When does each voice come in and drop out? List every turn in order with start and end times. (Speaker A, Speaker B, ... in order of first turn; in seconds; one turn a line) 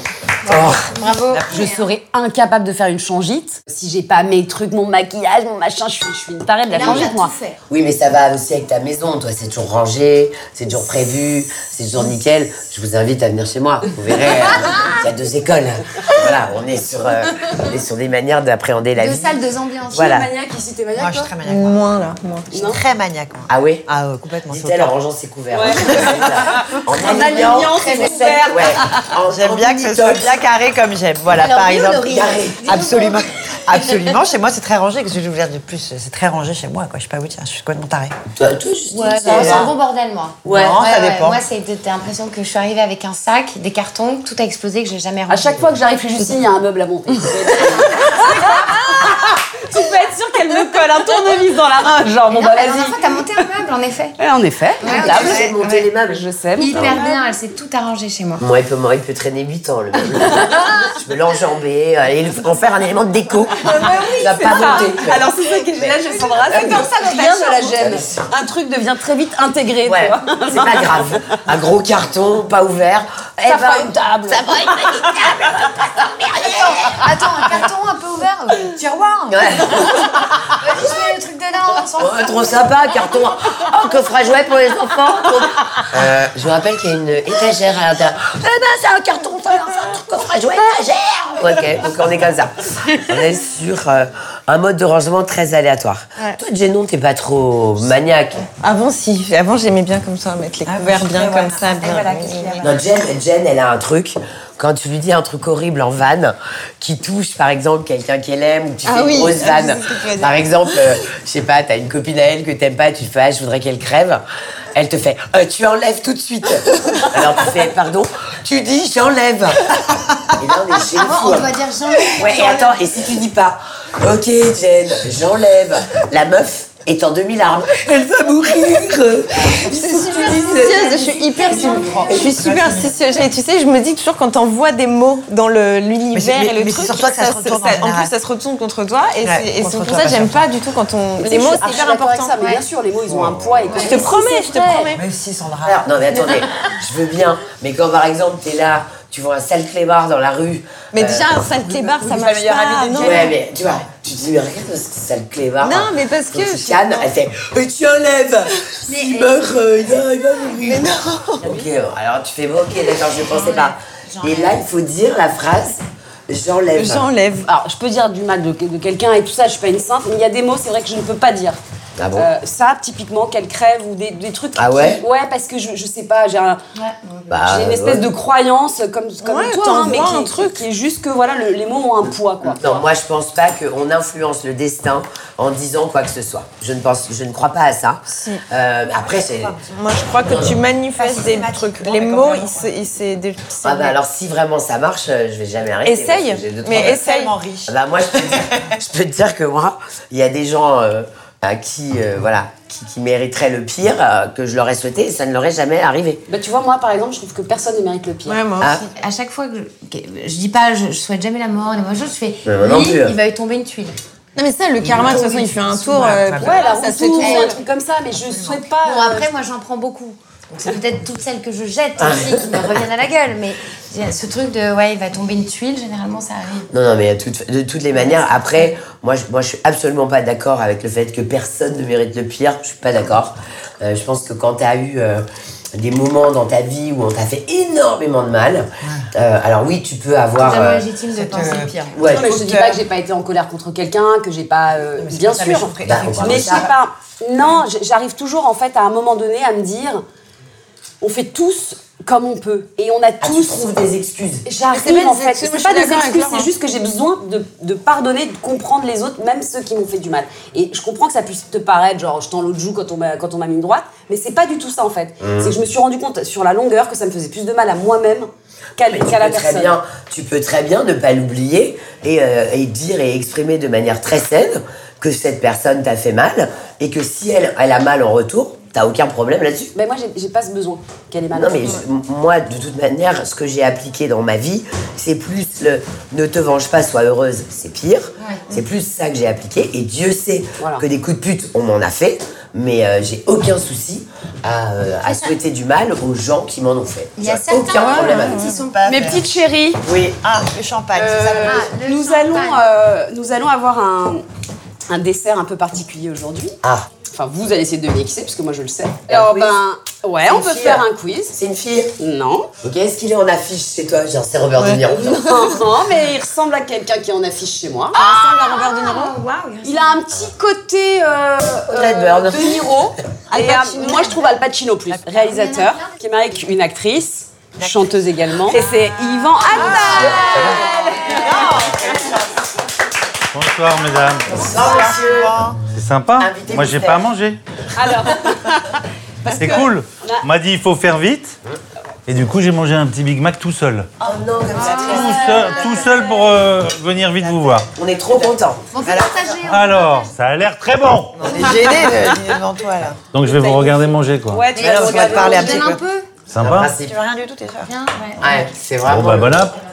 Speaker A: 0.5-0.9
Speaker B: 0.5-1.9
Speaker C: 1.4-7.3
Speaker B: 6.7-7.6
Speaker A: 7.7-20.3
Speaker B: 19.0-20.1
Speaker C: 19.9-21.3
Speaker D: 20.9-21.8
Speaker E: 21.4-22.5
Speaker C: 22.5-22.8
Speaker D: 22.5-25.0
Speaker A: 23.5-23.9
Speaker A: 24.5-30.3
Speaker C: 25.5-29.0
Speaker B: 27.4-28.4
Speaker D: 29.2-38.2
Speaker B: 31.3-33.9
Speaker A: 32.0-32.7
Speaker A: 38.4-39.7
Speaker B: 38.9-45.7
Speaker D: 39.2-39.7
Speaker A: 40.4-40.8
Speaker D: 40.5-41.4
Speaker C: 45.3-53.0
Speaker B: 47.9-48.6
Speaker B: 52.3-54.1
Speaker C: 54.2-55.5
Speaker B: 54.8-55.9
Speaker A: 54.9-57.0
Speaker C: 56.1-57.1
Speaker B: 56.6-58.4
Speaker A: 58.4-68.2
Speaker C: 63.8-71.2
Speaker E: 63.9-64.4
Speaker B: 66.7-67.7
Speaker A: 69.8-77.0
Speaker C: 73.4-74.6
Speaker B: 76.6-82.6
Speaker A: 79.3-80.2
Speaker A: 82.0-98.5
Speaker E: 98.6-102.6
Speaker D: 100.7-102.9
Speaker A: 102.6-114.2
Speaker E: 108.8-110.3
Speaker A: 114.8-121.5
Speaker B: 120.9-122.7
Speaker A: 122.2-131.2
Speaker E: 129.7-142.5
Speaker B: 131.5-132.1
Speaker D: 131.9-133.0
Speaker D: 136.1-138.1
Speaker D: 139.2-140.4
Speaker C: 141.2-144.9
Speaker D: 143.1-143.4
Speaker B: 143.7-143.9
Speaker E: 143.8-145.0
Speaker D: 144.9-146.2
Speaker A: 145.7-151.3
Speaker E: 150.9-153.3
Speaker D: 151.7-153.3
Speaker A: 153.0-167.1
Speaker E: 155.6-157.1
Speaker B: 158.9-159.4
Speaker E: 160.6-161.4
Speaker C: 161.4-161.7
Speaker B: 163.3-164.6
Speaker E: 166.7-167.5
Speaker C: 167.5-171.6
Speaker A: 172.0-172.3
Speaker C: 172.2-176.6
Speaker A: 174.6-175.0
Speaker B: 176.8-177.3
Speaker A: 177.3-178.1
Speaker C: 177.4-182.8
Speaker E: 179.2-180.6
Speaker A: 182.4-189.6
Speaker E: 188.1-188.4
Speaker D: 188.9-189.7
Speaker E: 189.7-193.9
Speaker A: 190.2-190.6
Speaker D: 190.3-192.7
Speaker A: 193.6-197.0
Speaker E: 195.8-197.3
Speaker D: 196.7-197.7
Speaker A: 197.7-206.2
Speaker D: 198.3-198.6
Speaker C: 206.3-208.4
Speaker E: 208.2-208.9
Speaker A: 208.6-208.8
Speaker B: 208.9-214.0
Speaker A: 212.4-213.2
Speaker E: 214.4-217.5
Speaker D: 214.9-216.7
Speaker C: 216.4-219.3
Speaker B: 217.2-217.6
Speaker B: 218.8-226.7
Speaker A: 222.0-222.8
Speaker A: 226.7-240.9
Speaker B: 240.4-242.0
Speaker D: 241.1-242.8
Speaker A: 241.9-242.3
Speaker C: 242.0-250.0
Speaker D: 245.0-246.7
Speaker A: 245.8-246.7
Speaker C: 251.0-253.7
Speaker A: 253.2-254.5
Speaker C: 254.5-269.8
Speaker E: 254.7-256.5
Speaker A: 265.2-265.6
Speaker A: 268.9-279.7
Speaker C: 279.8-281.8
Speaker A: 281.3-298.5
Speaker C: 290.6-290.9
Speaker B: 297.2-298.8
Speaker E: 297.8-298.5
Speaker D: 298.5-299.4
Speaker C: 298.9-299.8
Speaker A: 299.9-300.1
Speaker D: 299.9-301.7
Speaker C: 300.9-304.2
Speaker B: 301.4-302.6
Speaker C: 304.9-306.6
Speaker A: 306.6-306.9
Speaker C: 307.1-311.4
Speaker A: 309.1-309.6
Speaker A: 310.3-311.9
Speaker C: 312.0-312.5
Speaker A: 312.6-315.4
Speaker C: 314.9-318.0
Speaker E: 317.9-319.2
Speaker B: 317.9-320.0
Speaker C: 319.6-331.7
Speaker A: 321.7-322.7
Speaker D: 323.3-324.2
Speaker B: 325.3-325.9
Speaker D: 327.6-328.8
Speaker D: 329.5-332.4
Speaker B: 329.7-330.2
Speaker A: 329.8-330.6
Speaker F: 333.3-334.4
Speaker A: 334.3-335.4
Speaker D: 334.3-335.6
Speaker F: 335.7-337.4
Speaker A: 336.2-337.1
Speaker C: 337.8-340.2
Speaker F: 339.3-341.4
Speaker F: 342.1-343.9
Speaker D: 344.0-345.0
Speaker A: 344.0-345.8
Speaker C: 344.6-346.4
Speaker F: 344.8-347.7
Speaker D: 347.1-348.3
Speaker A: 347.8-348.6
Speaker B: 348.7-350.1
Speaker D: 348.9-349.3
Speaker F: 349.4-351.4
Speaker D: 351.2-353.0
Speaker F: 353.1-354.5
Speaker C: 353.3-355.7
Speaker B: 354.6-356.1
Speaker D: 354.6-355.8
Speaker F: 356.3-356.8
Speaker A: 356.4-356.9
Speaker D: 356.8-357.7
Speaker B: 357.7-358.5
Speaker A: 358.2-359.5
Speaker F: 358.8-359.5